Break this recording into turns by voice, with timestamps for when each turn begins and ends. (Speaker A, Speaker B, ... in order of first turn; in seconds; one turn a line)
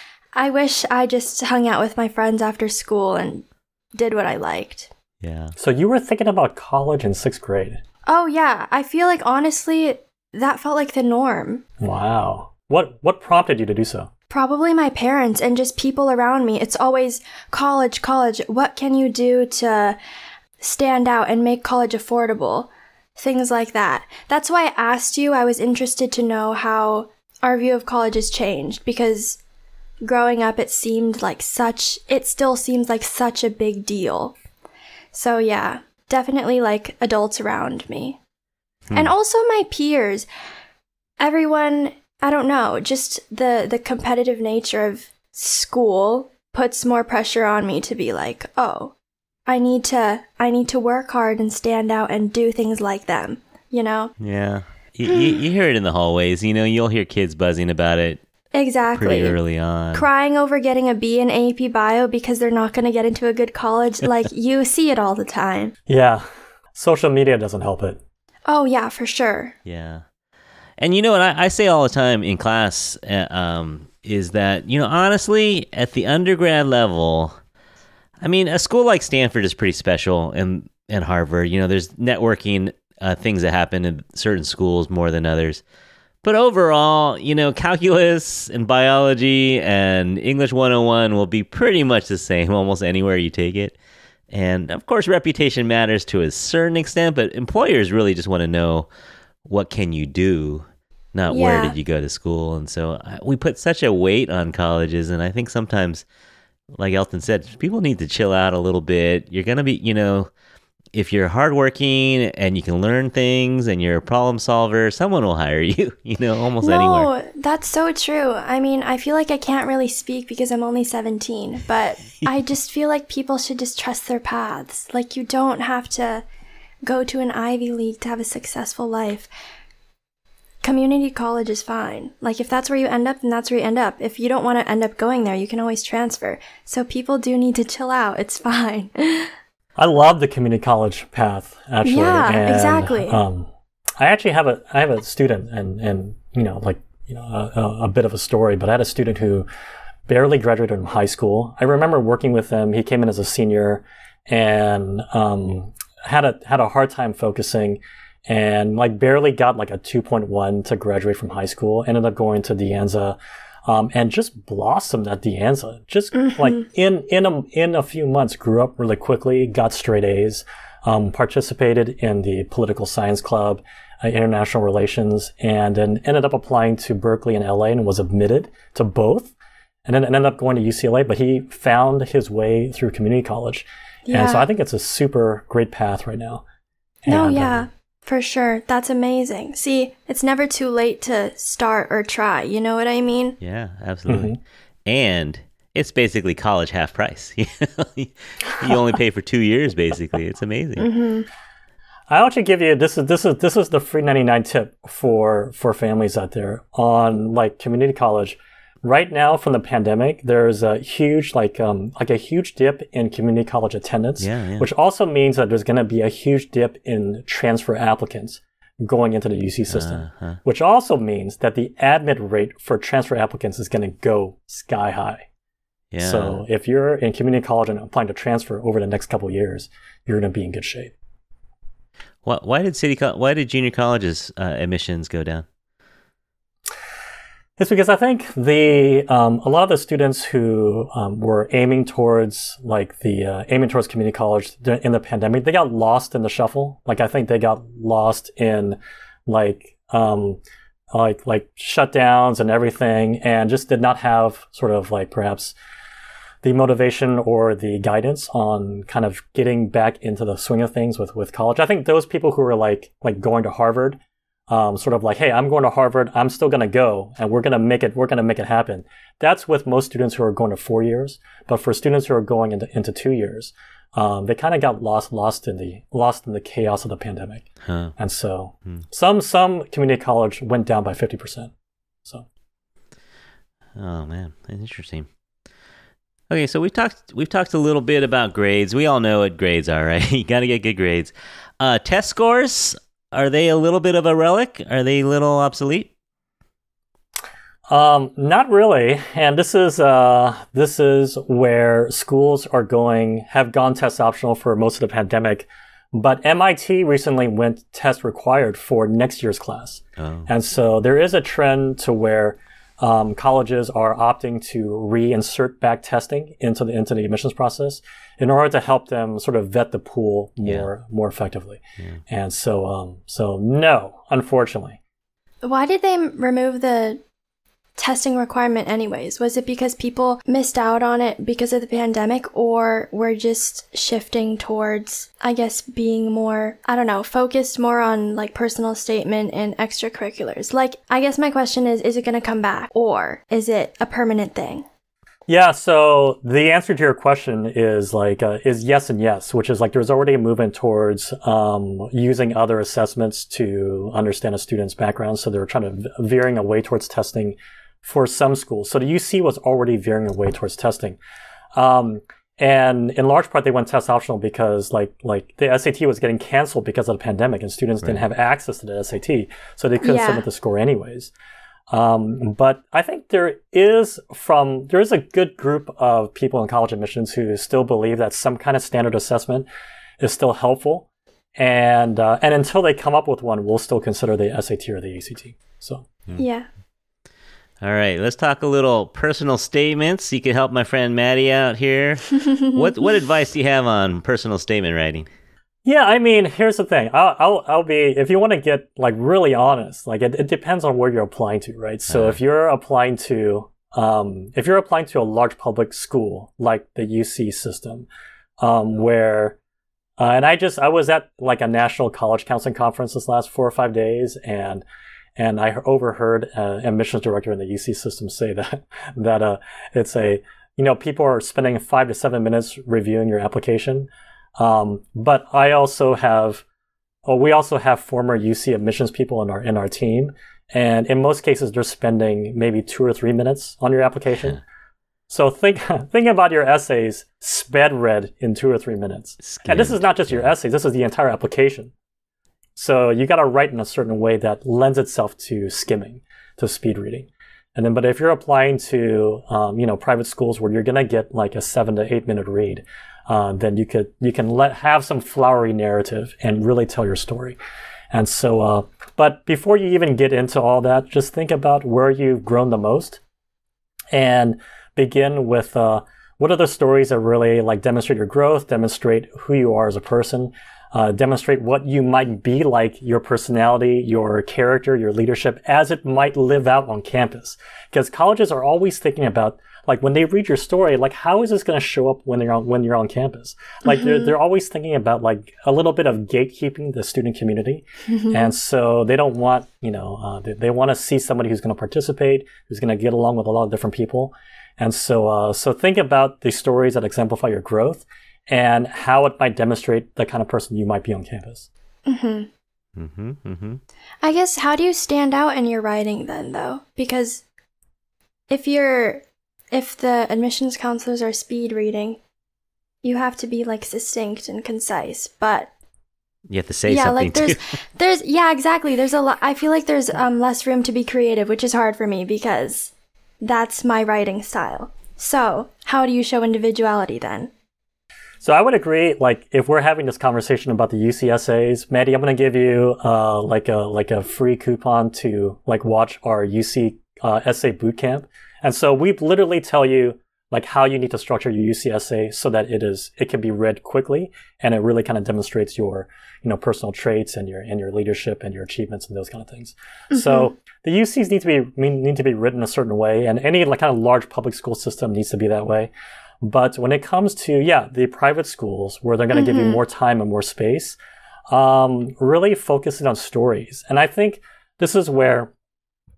Speaker A: 0.3-4.9
Speaker B: 5.2-5.5
Speaker C: 5.6-7.8
Speaker A: 8.1-11.6
Speaker C: 11.8-14.1
Speaker A: 14.3-20.0
Speaker A: 20.6-29.4
Speaker A: 30.0-34.4
Speaker A: 35.1-38.2
Speaker A: 38.9-40.3
Speaker A: 41.2-48.9
Speaker A: 49.5-54.1
Speaker B: 54.2-58.2
Speaker A: 55.1-55.4
Speaker A: 58.5-59.4
Speaker B: 58.9-60.1
Speaker A: 59.9-65.7
Speaker C: 65.9-68.0
Speaker A: 68.5-69.5
Speaker B: 69.6-70.0
Speaker B: 70.8-77.3
Speaker B: 78.2-85.6
Speaker B: 86.2-93.8
Speaker B: 94.3-98.9
Speaker B: 99.4-106.0
Speaker A: 101.3-101.8
Speaker B: 106.7-110.3
Speaker B: 110.9-117.1
Speaker A: 116.6-126.2
Speaker A: 126.8-129.3
Speaker A: 130.6-139.3
Speaker C: 139.8-149.5
Speaker A: 141.8-143.2
Speaker C: 150.1-179.3
Speaker A: 166.1-166.6
Speaker C: 179.8-186.4
Speaker A: 184.1-184.5
Speaker C: 187.0-187.7
Speaker A: 187.1-193.4
Speaker B: 193.4-194.3
Speaker C: 194.1-194.4
Speaker B: 194.9-200.9
Speaker A: 200.8-201.3
Speaker C: 202.1-225.3
Speaker B: 214.2-214.7
Speaker B: 219.7-220.4
Speaker B: 225.9-226.4
Speaker C: 226.0-230.9
Speaker B: 232.2-235.4
Speaker C: 237.6-250.4
Speaker C: 250.9-255.5
Speaker C: 256.4-277.4
Speaker B: 277.6-277.9
Speaker C: 278.0-281.5
Speaker B: 283.8-285.1
Speaker B: 286.3-295.9
Speaker C: 297.7-324.8
Speaker B: 310.0-310.3
Speaker A: 325.4-327.0
Speaker A: 327.8-344.6
Speaker C: 345.3-361.0
Speaker C: 361.6-371.1
Speaker A: 369.8-370.2
Speaker C: 371.7-379.5
Speaker C: 380.0-386.0
Speaker A: 386.2-386.5
Speaker B: 387.6-395.1
Speaker C: 395.6-407.9
Speaker B: 401.9-402.2
Speaker C: 408.4-409.4
Speaker C: 410.0-414.6
Speaker C: 415.2-426.4
Speaker C: 427.0-434.4
Speaker C: 435.1-441.7
Speaker B: 439.2-440.3
Speaker C: 442.6-457.4
Speaker C: 457.9-463.0
Speaker C: 463.9-501.5
Speaker A: 483.6-484.1
Speaker A: 487.9-488.3
Speaker A: 501.9-502.3
Speaker B: 502.8-503.6
Speaker A: 504.0-507.2
Speaker A: 508.3-512.0
Speaker A: 512.8-515.5
Speaker B: 516.3-517.5
Speaker A: 516.7-527.3
Speaker C: 528.2-555.7
Speaker A: 549.9-550.3
Speaker C: 556.2-560.8
Speaker A: 559.1-559.6
Speaker C: 561.3-565.3